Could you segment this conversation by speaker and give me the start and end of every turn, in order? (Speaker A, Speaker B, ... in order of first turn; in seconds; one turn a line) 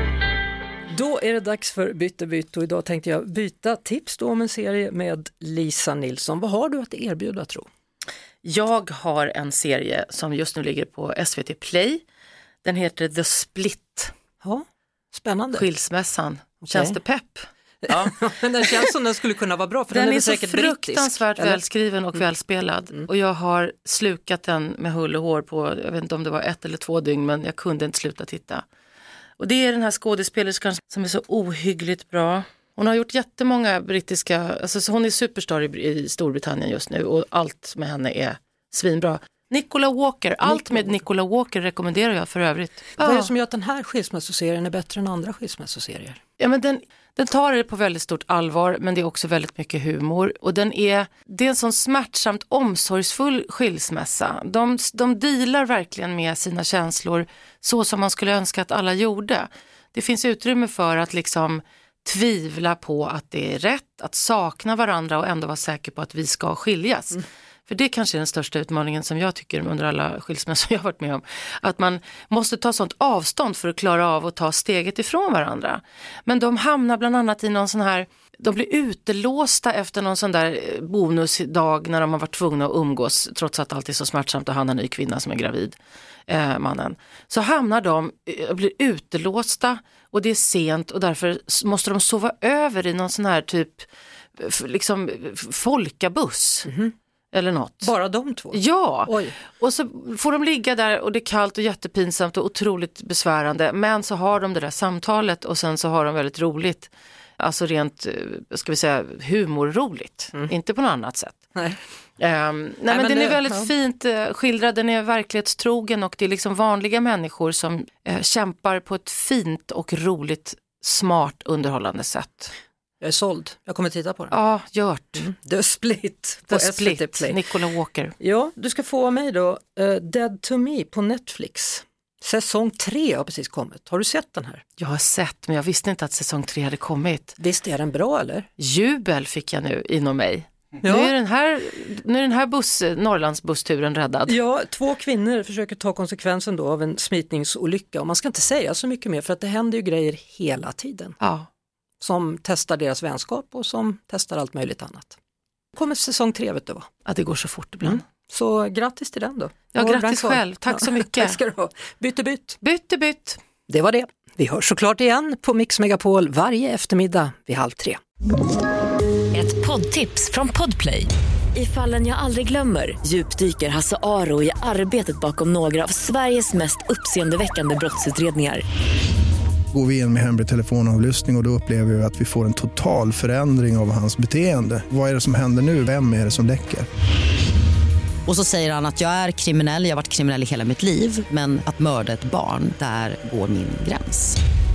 Speaker A: 0.9-7.7
Speaker B: 8.4-12.0
Speaker B: 12.6-14.1
Speaker A: 14.4-15.7
Speaker B: 15.6-17.5
Speaker A: 16.6-17.0
Speaker A: 17.8-21.6
Speaker B: 19.9-28.6
Speaker B: 29.4-43.3
Speaker A: 40.4-41.0
Speaker A: 43.0-46.2
Speaker B: 46.4-85.8
Speaker B: 86.3-93.9
Speaker B: 94.4-96.7
Speaker A: 96.7-96.9
Speaker B: 97.3-97.9
Speaker A: 97.8-99.4
Speaker B: 98.5-111.5
Speaker A: 111.5-111.8
Speaker B: 112.2-122.5
Speaker A: 112.9-113.7
Speaker A: 123.0-124.3
Speaker B: 124.3-125.3
Speaker A: 125.2-127.4
Speaker B: 126.5-128.1
Speaker A: 128.2-134.6
Speaker B: 134.8-137.4
Speaker A: 137.4-138.5
Speaker B: 138.6-144.3
Speaker A: 140.8-141.1
Speaker A: 144.3-151.2
Speaker B: 151.2-151.5
Speaker A: 152.0-155.2
Speaker A: 155.7-156.9
Speaker B: 157.1-158.0
Speaker A: 157.8-162.6
Speaker B: 159.8-161.4
Speaker B: 162.6-163.4
Speaker A: 163.7-168.0
Speaker C: 169.3-178.6
Speaker D: 179.7-186.9
Speaker E: 188.3-194.4